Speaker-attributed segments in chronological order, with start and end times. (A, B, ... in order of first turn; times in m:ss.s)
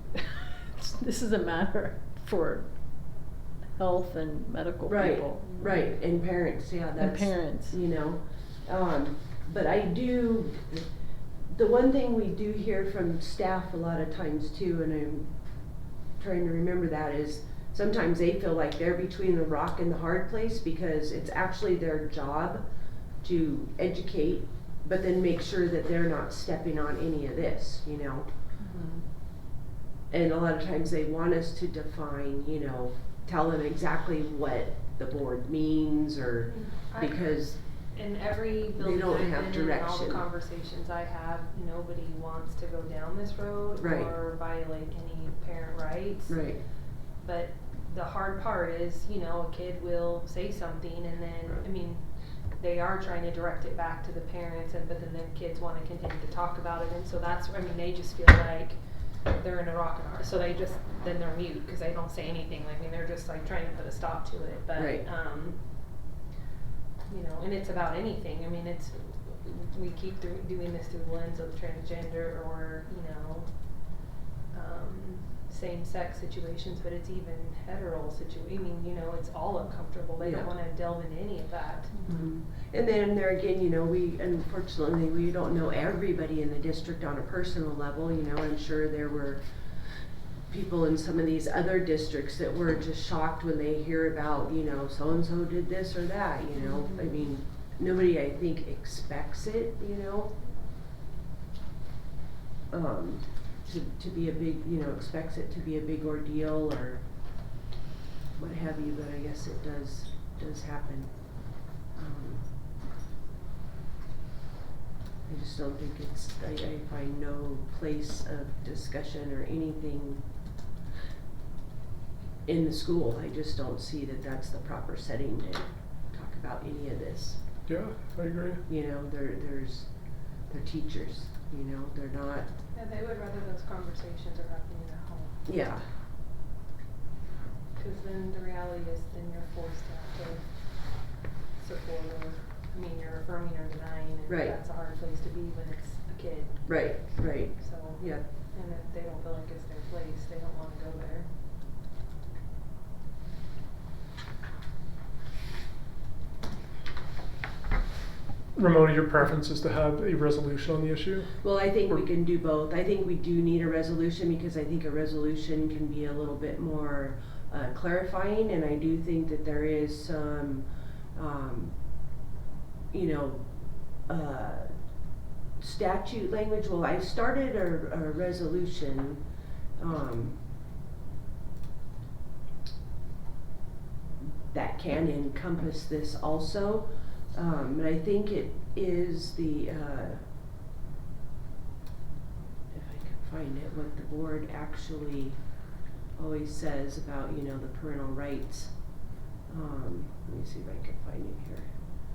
0:00.7-0:02.7 A
0:03.8-0:05.5 A
0:04.9-0:10.9 B
0:07.1-0:07.7 A
0:11.5-0:15.3 B
0:16.2-0:22.6 B
0:23.2-0:28.3 B
0:28.6-0:29.0 C
0:30.1-0:37.6 B
0:36.4-0:37.4 C
0:38.0-0:46.4 C
0:38.8-0:40.3 B
0:43.8-0:44.1 B
0:46.3-0:46.6 B
0:47.2-0:52.0 C
0:52.6-1:05.6 C
1:04.8-1:05.0 B
1:07.1-1:22.1 C
1:20.2-1:20.5 B
1:22.1-1:29.4 B
1:30.5-1:40.3 B
1:42.7-1:47.0 B
1:48.4-1:51.2 B
1:51.9-1:52.4 B
1:55.3-2:00.2 B
2:02.5-2:07.4 B
2:07.7-2:08.6 D
2:08.7-2:09.9 B
2:10.5-2:12.5 B
2:12.7-2:15.4 C
2:15.5-2:15.8 B
2:17.8-2:20.4 C
2:21.6-2:31.3 C
2:24.3-2:24.5 B
2:26.7-2:28.2 B
2:38.6-2:41.4 D
2:41.4-2:51.8 B
2:52.9-2:53.5 B
2:54.1-2:54.7 B
2:55.6-2:59.2 B
2:59.8-3:00.4 B
3:04.5-3:10.2 B
3:12.7-3:15.4 B
3:16.2-3:18.8 B
3:19.5-3:21.7 B